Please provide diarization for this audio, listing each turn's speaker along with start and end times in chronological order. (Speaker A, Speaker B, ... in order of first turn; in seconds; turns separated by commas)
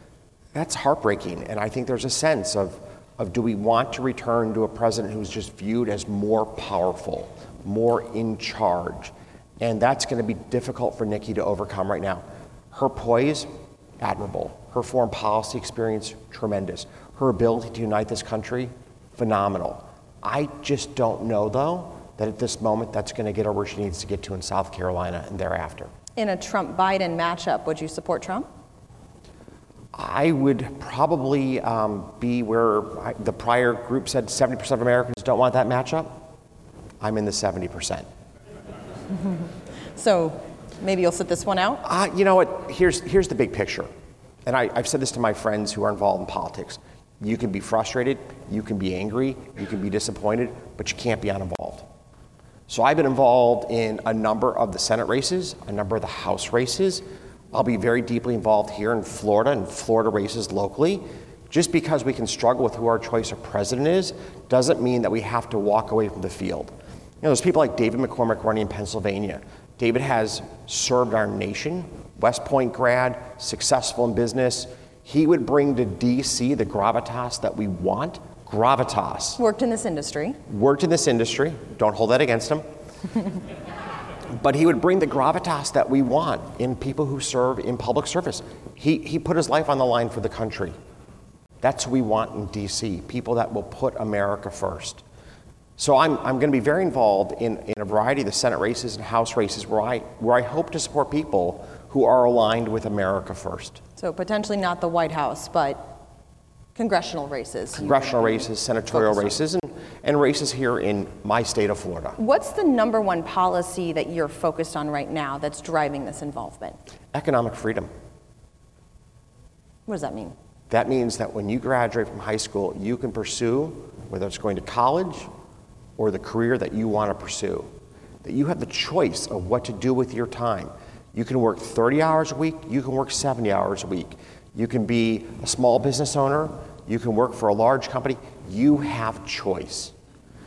Speaker A: 0.5-25.9, Speaker B: 26.2-28.5, Speaker A: 29.9-36.2, Speaker A: 37.0-38.1, Speaker B: 39.1-41.8, Speaker A: 41.8-43.9, Speaker A: 44.5-51.9, Speaker A: 52.7-79.4, Speaker B: 79.4-80.4, Speaker A: 80.5-82.7, Speaker A: 84.3-90.8, Speaker A: 91.6-95.0, Speaker A: 95.8-103.8, Speaker B: 104.0-106.0, Speaker B: 106.8-109.4, Speaker A: 107.7-112.2, Speaker B: 112.2-116.8, Speaker A: 117.1-117.9, Speaker B: 119.9-120.3, Speaker A: 120.7-125.3, Speaker A: 126.0-127.7, Speaker A: 128.2-139.9